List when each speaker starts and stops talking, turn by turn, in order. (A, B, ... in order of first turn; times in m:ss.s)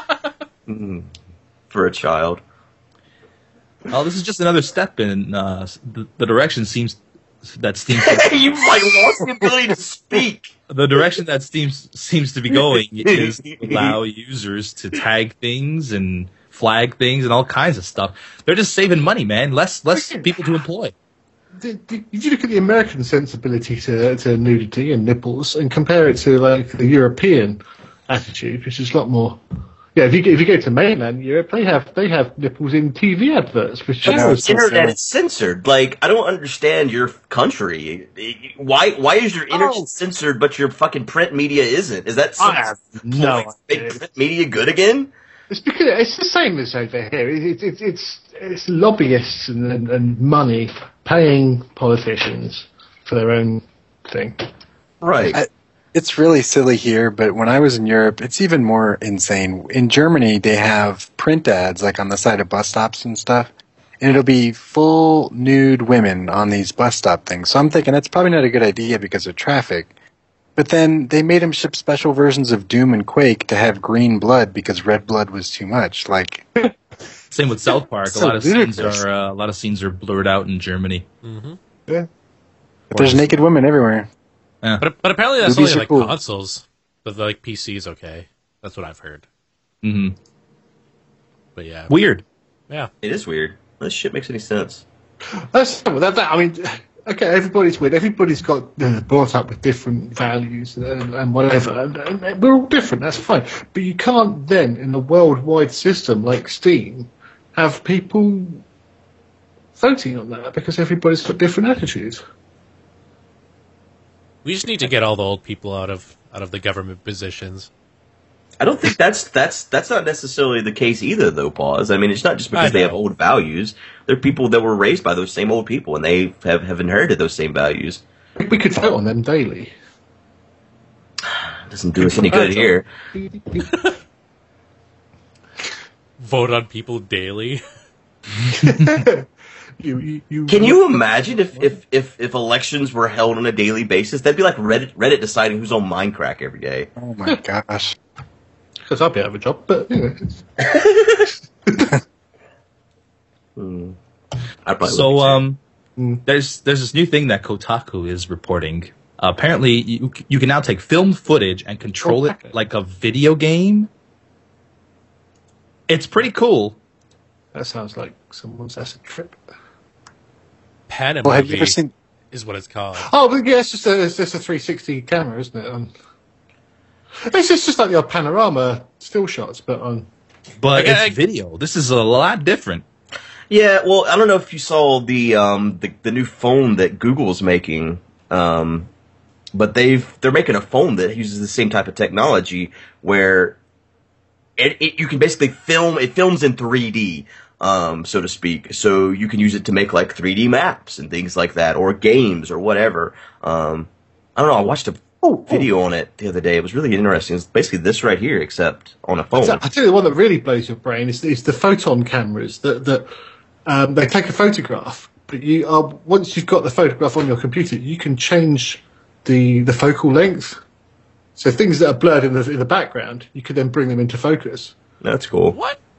0:00.7-0:01.1 A
0:01.7-0:02.4 A
0:03.9-0:08.4 B
0:07.9-0:10.5 A
0:10.7-0:20.9 B
0:12.5-0:14.0 A
0:19.9-0:20.3 C
0:21.6-0:29.4 C
0:29.9-0:34.5 C
0:34.0-0:35.0 D
0:34.1-0:42.6 A
0:39.5-0:39.9 C
0:42.4-0:44.0 C
0:43.1-0:45.1 A
0:45.5-0:54.5 C
0:55.0-0:55.4 A
0:55.3-1:09.9 D
1:10.6-1:16.5 D
1:17.3-1:21.0 B
1:18.0-1:19.0 D
1:21.2-1:21.6 E
1:22.9-1:23.2 C
1:22.9-1:24.1 D
1:24.8-1:29.2 E
1:25.4-1:26.1 D
1:29.8-1:30.1 B
1:31.6-1:31.9 E
1:31.9-1:32.2 B
1:33.0-1:34.8 A
1:35.5-1:48.6 C
1:49.8-1:52.2 C
1:54.4-1:57.7 E
1:58.6-2:08.0 A
2:02.5-2:03.0 E
2:08.4-2:09.7 C
2:11.7-2:12.8 A
2:12.0-2:13.7 C
2:16.2-2:17.6 E
2:18.5-2:19.2 C
2:18.6-2:18.9 B
2:19.8-2:21.0 C
2:20.5-2:26.9 A
2:27.0-2:27.9 D
2:28.8-2:30.4 C
2:33.6-2:34.0 A
2:34.6-2:35.4 A
2:34.8-2:35.6 B
2:36.2-2:43.9 B
2:42.0-2:42.5 C
2:45.9-2:46.8 B
2:47.5-2:49.4 C
2:50.9-2:51.8 E
2:51.2-2:51.9 D
2:52.3-2:53.1 E
2:53.0-2:55.9 C
2:57.2-3:00.1 C
3:00.6-3:02.8 B
3:00.7-3:01.2 E
3:03.5-3:08.9 A
3:09.5-3:13.6 A
3:14.6-3:29.6 A
3:25.2-3:25.7 C
3:29.3-3:33.1 C
3:33.7-3:40.6 C
3:41.4-3:44.7 C
3:45.0-3:45.6 A
3:45.5-3:45.8 E